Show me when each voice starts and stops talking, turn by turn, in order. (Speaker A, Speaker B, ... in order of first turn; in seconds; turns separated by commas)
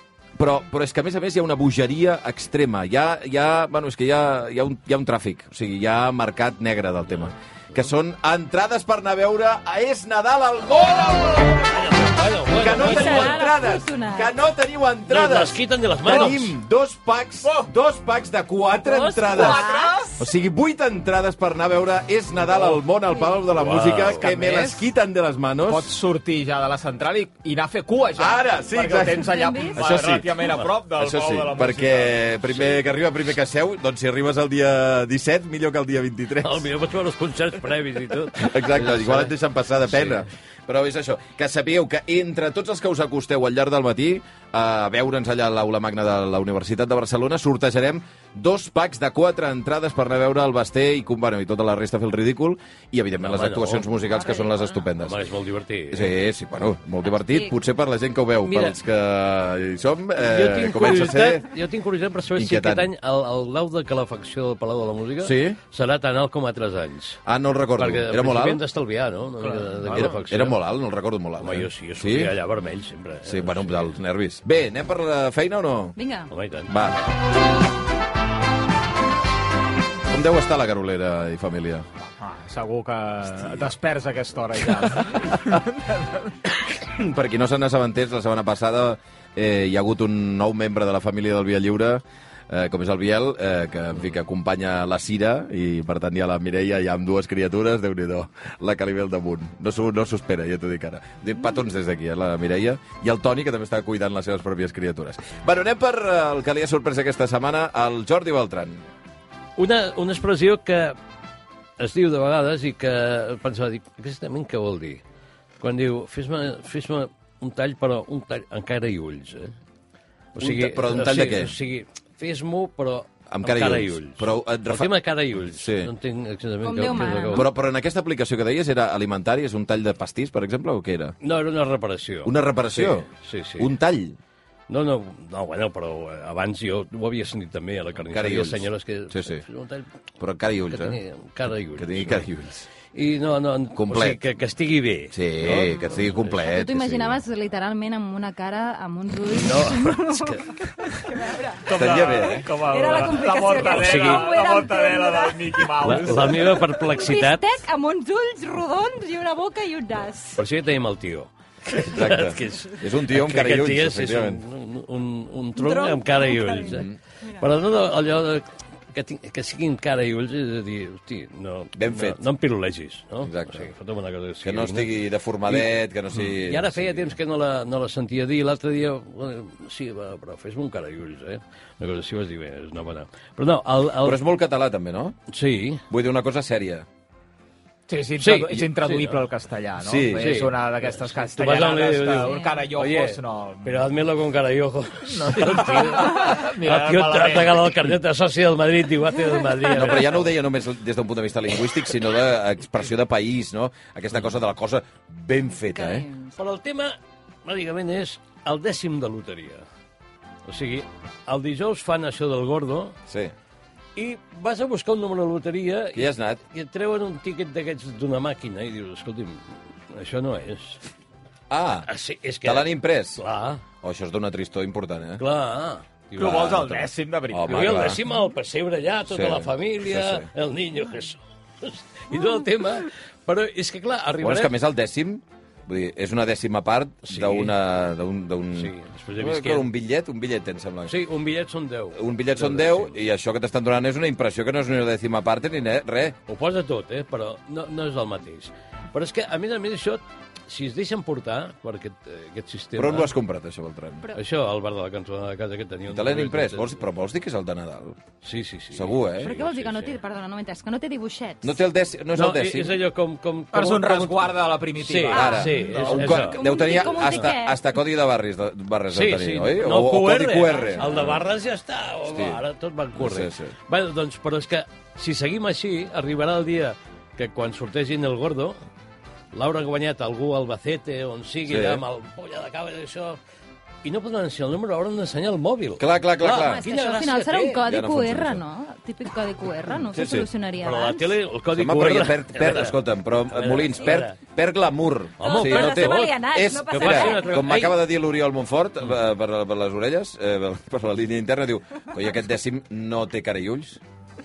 Speaker A: 0.4-11.8, Speaker B: 11.7-13.6, Speaker A: 12.5-25.9, Speaker C: 12.7-14.3, Speaker B: 15.1-16.6, Speaker D: 17.4-17.7, Speaker C: 18.8-20.1, Speaker D: 19.3-20.2, Speaker B: 23.5-24.3, Speaker D: 24.2-24.8, Speaker D: 25.7-32.2, Speaker A: 28.2-36.7, Speaker C: 29.2-29.8, Speaker B: 36.4-39.3, Speaker A: 38.4-55.3, Speaker B: 39.9-40.3, Speaker B: 53.2-53.9, Speaker C: 54.1-54.8, Speaker B: 55.0-56.1, Speaker A: 55.9-61.5, Speaker C: 57.1-57.5, Speaker B: 58.5-58.8, Speaker B: 60.2-67.2, Speaker A: 62.3-62.9, Speaker A: 65.2-65.6, Speaker A: 67.3-68.6, Speaker B: 67.8-70.6, Speaker A: 69.6-72.3, Speaker B: 71.4-74.0, Speaker A: 73.3-76.0, Speaker C: 76.0-76.3, Speaker B: 76.3-76.7, Speaker A: 76.7-77.0, Speaker A: 80.1-81.9, Speaker D: 82.0-86.3, Speaker A: 86.7-108.8, Speaker B: 109.6-111.0, Speaker B: 111.8-115.0, Speaker B: 115.6-119.5, Speaker B: 120.3-127.5, Speaker A: 120.4-121.5, Speaker A: 123.3-125.9, Speaker C: 126.6-127.5, Speaker A: 127.3-131.2, Speaker B: 131.2-133.7, Speaker A: 132.2-134.2, Speaker B: 134.7-139.9, Speaker A: 138.1-139.4, Speaker A: 140.2-141.0, Speaker B: 140.7-142.2, Speaker A: 141.8-142.7, Speaker B: 142.9-146.7, Speaker A: 143.7-144.2, Speaker A: 145.1-147.2, Speaker C: 146.4-155.7, Speaker B: 149.3-150.7, Speaker D: 151.7-156.8, Speaker A: 151.7-152.5, Speaker B: 153.6-154.5, Speaker B: 155.8-157.5, Speaker C: 156.8-160.4, Speaker B: 160.4-166.9, Speaker A: 161.8-164.4, Speaker C: 165.6-167.4, Speaker A: 166.7-167.0, Speaker B: 167.4-174.9, Speaker A: 171.8-172.2, Speaker A: 173.2-173.7, Speaker A: 174.4-177.2, Speaker B: 175.5-184.2, Speaker A: 184.0-185.2, Speaker B: 185.3-185.8, Speaker A: 185.9-186.9, Speaker D: 187.9-193.8, Speaker B: 188.2-189.3, Speaker A: 189.8-190.5, Speaker B: 190.2-200.4, Speaker C: 192.2-192.7, Speaker D: 195.1-197.8, Speaker A: 199.7-206.1, Speaker C: 205.6-206.3, Speaker B: 206.4-209.6, Speaker B: 210.5-212.9, Speaker A: 213.1-213.3, Speaker B: 214.0-220.8, Speaker A: 215.9-216.4, Speaker A: 221.5-221.9, Speaker B: 221.9-223.6, Speaker A: 222.4-223.2, Speaker A: 223.8-225.2, Speaker B: 225.2-226.9, Speaker D: 226.2-227.9, Speaker A: 227.3-228.0, Speaker B: 227.5-234.6, Speaker A: 229.1-230.3, Speaker A: 234.2-241.0, Speaker B: 237.0-237.6, Speaker B: 238.6-239.7, Speaker B: 240.9-243.0, Speaker A: 241.9-246.2, Speaker B: 246.3-253.1, Speaker A: 252.8-254.1, Speaker B: 254.1-256.8, Speaker A: 255.9-258.0, Speaker B: 258.2-259.9, Speaker A: 258.7-259.4, Speaker C: 259.2-261.6, Speaker A: 261.4-262.8, Speaker B: 262.1-266.4, Speaker D: 263.5-266.2, Speaker A: 265.1-271.3, Speaker C: 265.1-265.4, Speaker C: 266.1-267.6, Speaker B: 268.9-278.6, Speaker C: 270.5-270.9, Speaker A: 272.1-272.4, Speaker A: 272.9-273.6, Speaker B: 279.3-283.2, Speaker A: 281.5-281.8, Speaker B: 283.8-287.6, Speaker A: 285.8-286.6, Speaker C: 286.4-291.1, Speaker A: 287.6-288.4, Speaker A: 289.9-290.3, Speaker B: 290.6-294.2, Speaker A: 291.5-303.8, Speaker B: 295.2-297.8, Speaker C: 295.2-297.5